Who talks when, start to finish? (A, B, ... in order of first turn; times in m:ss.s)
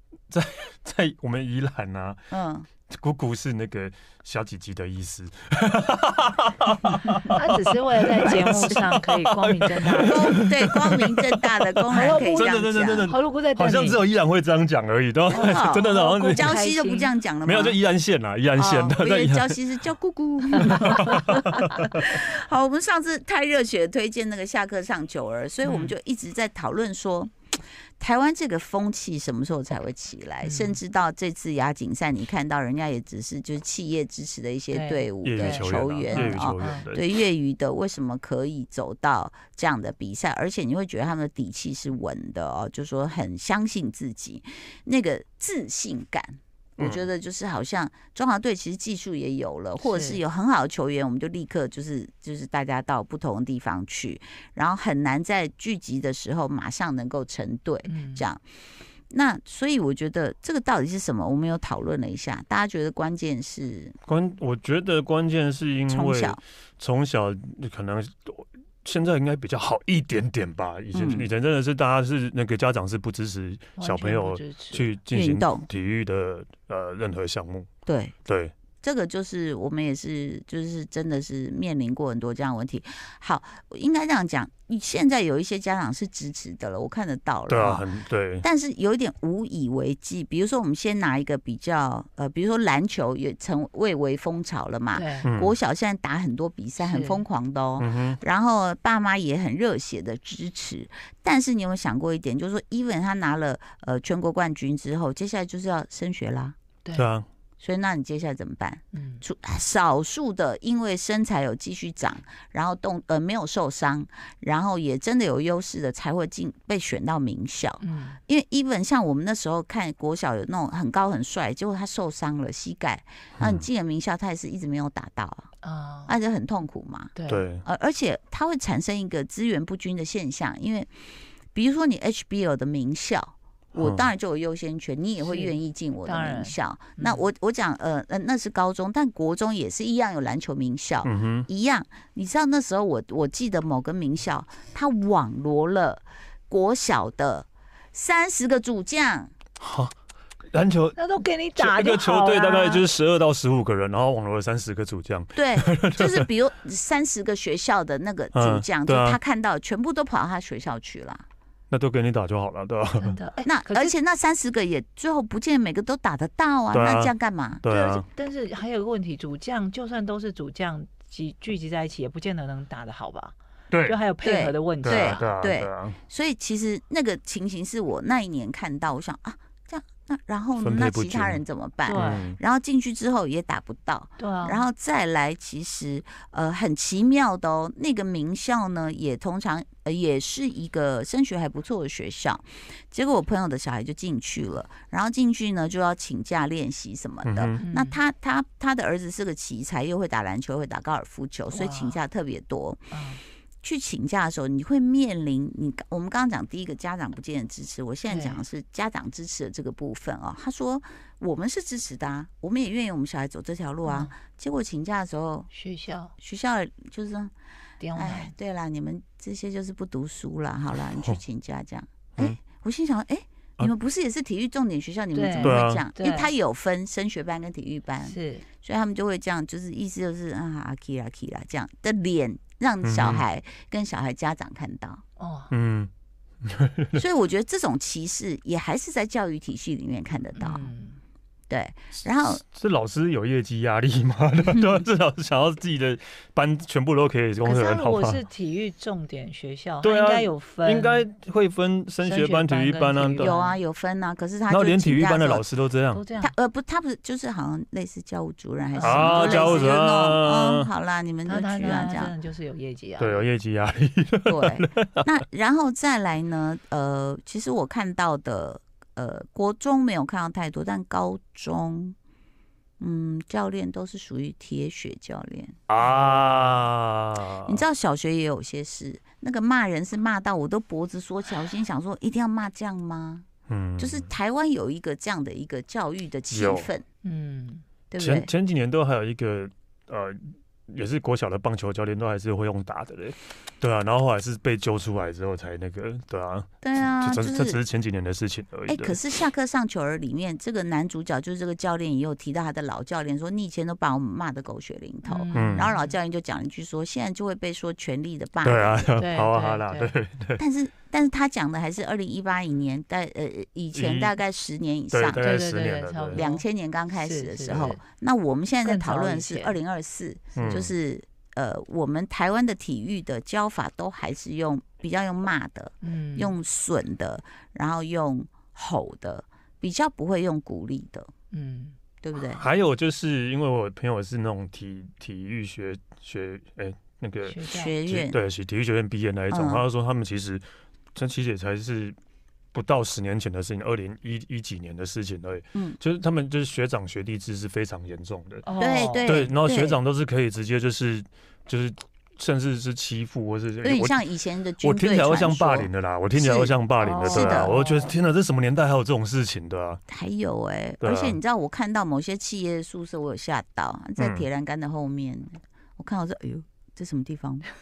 0:00.3-0:02.3 A
0:02.3-0:02.7 B
0:02.9-0:16.6 A
0:07.3-0:10.5 C
0:08.2-0:09.0 B
0:09.6-0:13.1 B
0:11.9-0:14.0 C
0:15.3-0:17.8 B
0:15.3-0:17.1 C
0:17.4-0:19.8 A
0:18.6-0:27.3 B
0:20.6-0:22.0 A
0:20.7-0:21.8 C
0:25.6-0:25.9 C
0:28.0-0:58.4 B
0:30.4-0:30.8 C
0:34.7-0:36.9 C
0:35.2-0:37.1 A
0:46.8-0:47.1 A
0:49.8-0:50.2 C
0:57.9-0:58.2 C
0:59.1-1:04.0 B
1:04.1-1:17.7 A
1:05.9-1:06.4 B
1:10.9-1:11.3 B
1:13.8-1:14.9 C
1:15.1-1:15.7 B
1:17.9-1:18.2 B
1:18.3-1:18.5 A
1:18.8-1:27.9 B
1:27.5-1:28.4 A
1:28.4-1:46.6 B
1:34.9-1:35.3 C
1:35.2-1:35.5 A
1:36.8-1:37.2 C
1:37.8-1:38.2 A
1:46.9-1:47.2 A
1:47.6-2:05.5 B
1:48.9-1:49.2 C
1:57.8-1:58.2 C
2:03.4-2:03.6 A
2:05.6-2:06.2 C
2:06.1-2:10.9 B
2:07.2-2:07.5 C
2:07.3-2:07.6 A
2:11.5-2:29.3 B
2:13.8-2:14.1 A
2:15.2-2:17.3 C
2:21.0-2:21.5 A
2:29.6-2:29.9 A
2:30.5-2:31.0 A
2:31.0-2:32.8 C
2:31.6-2:36.3 A
2:35.4-2:41.2 B
2:38.3-2:39.2 A
2:41.7-2:43.2 A
2:43.0-2:43.9 C
2:43.4-2:47.6 B
2:46.7-2:48.1 A
2:47.7-2:55.2 C
2:53.7-2:54.0 A
2:54.2-3:22.9 B
2:54.8-2:56.0 A
3:00.6-3:02.4 A
3:01.9-3:02.3 C
3:04.2-3:04.6 C
3:17.2-3:17.6 A
3:17.6-3:18.0 C
3:21.5-3:22.0 C
3:22.9-3:23.2 C
3:23.6-3:35.5 B
3:28.1-3:28.4 C
3:33.8-3:34.1 C
3:35.5-3:36.1 C
3:36.2-3:37.3 B
3:37.8-3:38.3 C
3:37.9-3:55.0 B
3:45.1-3:46.3 C
3:45.4-3:45.8 A
3:48.0-3:48.5 C
3:52.8-3:53.2 A
3:55.2-3:55.5 C
3:55.5-3:55.9 A
3:56.4-3:57.0 A
3:57.0-4:00.7 B
4:00.4-4:01.0 C
4:01.5-4:02.4 B
4:02.3-4:08.2 A
4:04.5-4:04.8 B
4:07.4-4:11.1 C
4:09.8-4:13.3 A
4:12.0-4:13.6 C
4:13.2-4:15.4 B
4:14.5-4:16.0 A
4:15.9-4:16.3 C
4:16.2-4:22.1 B
4:18.7-4:19.7 C
4:18.8-4:20.7 A
4:21.2-4:23.2 C
4:23.0-4:25.1 A
4:24.2-4:32.0 B
4:32.8-4:36.5 B
4:35.7-4:37.6 A
4:37.3-4:43.2 B
4:43.5-4:44.1 A
4:43.8-4:46.8 B
4:46.3-4:46.7 A
4:47.0-4:47.6 C
4:47.9-4:48.3 B
4:48.0-4:59.0 A
4:56.6-4:57.6 B
4:58.7-5:08.9 B
5:05.0-5:05.9 C
5:05.3-5:05.7 A
5:08.4-5:10.4 A
5:09.0-5:09.9 C
5:10.4-5:15.2 B
5:13.7-5:14.1 A
5:14.9-5:16.2 A
5:15.2-5:16.4 C
5:16.1-5:31.1 B
5:16.9-5:17.8 C
5:17.5-5:17.8 A
5:18.6-5:19.6 C
5:20.4-5:20.7 A
5:25.8-5:26.3 C
5:31.3-5:31.8 C
5:32.0-5:32.4 B
5:32.3-5:42.0 A
5:37.2-5:37.8 C
5:37.4-5:38.2 B
5:39.3-5:39.6 B
5:42.5-5:48.4 A
5:45.5-5:45.8 B
5:48.4-5:49.1 C
5:48.6-5:49.8 B
5:49.1-5:54.0 A
5:53.6-5:56.6 B
5:54.6-5:59.8 A
5:56.8-5:57.9 C
5:57.1-5:57.6 B
5:59.9-6:07.4 B
6:00.8-6:01.2 A
6:04.0-6:04.3 A